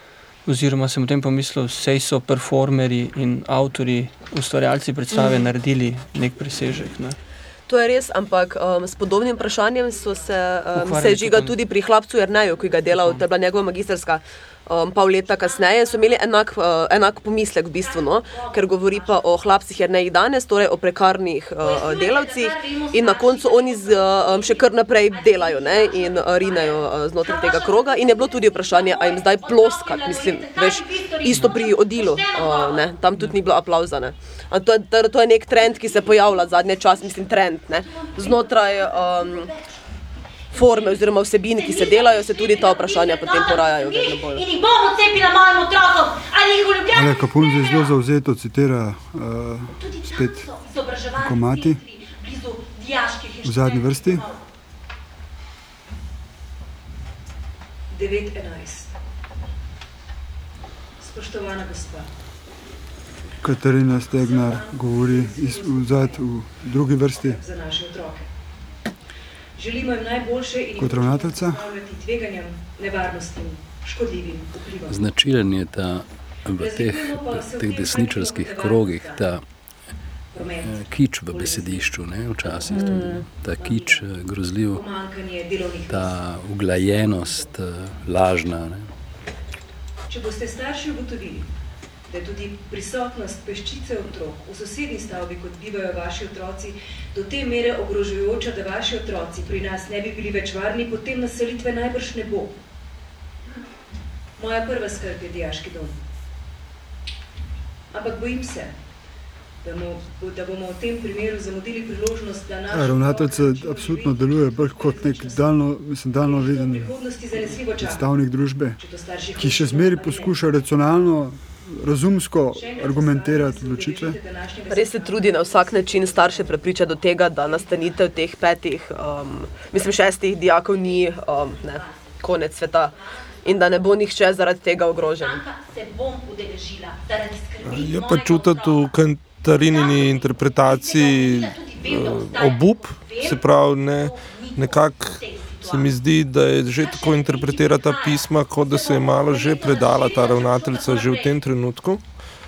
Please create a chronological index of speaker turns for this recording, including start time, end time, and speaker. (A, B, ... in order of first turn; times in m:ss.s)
0:00.4-0:07.2 A
0:05.1-0:05.5 B
0:07.7-0:39.5 B
0:09.8-0:10.5 C
0:10.7-0:11.6 A
0:12.9-0:13.3 A
0:15.3-0:16.4 C
0:17.8-0:19.5 C
0:21.6-0:33.0 C
0:35.6-0:39.8 C
0:40.5-0:48.0 C
0:40.5-0:44.5 B
0:46.9-0:50.5 D
0:49.7-0:54.5 C
0:51.2-0:51.8 D
0:53.4-0:54.3 D
0:57.9-0:58.9 E
1:01.0-1:02.1 E
1:03.4-1:07.4 D
1:04.2-1:06.3 E
1:06.9-1:08.3 E
1:09.6-1:15.0 E
1:10.8-1:11.6 D
1:14.9-1:19.4 F
1:16.6-1:19.3 E
1:20.3-1:24.1 E
1:20.6-1:24.8 F
1:22.7-1:23.2 B
1:24.7-1:27.5 E
1:25.9-1:28.9 F
1:30.1-1:31.5 E
1:32.1-1:42.6 E
1:44.4-1:46.0 E
1:47.9-1:48.8 E
1:49.6-1:55.6 E
1:52.7-1:56.9 D
1:56.2-1:58.1 E
1:57.8-1:58.8 D
1:58.8-2:00.6 E
1:59.4-2:04.2 D
2:02.5-2:07.2 E
2:04.7-2:15.4 B
2:10.6-2:14.0 C
2:15.0-2:26.0 C
2:17.6-2:32.0 G
2:26.6-2:31.5 C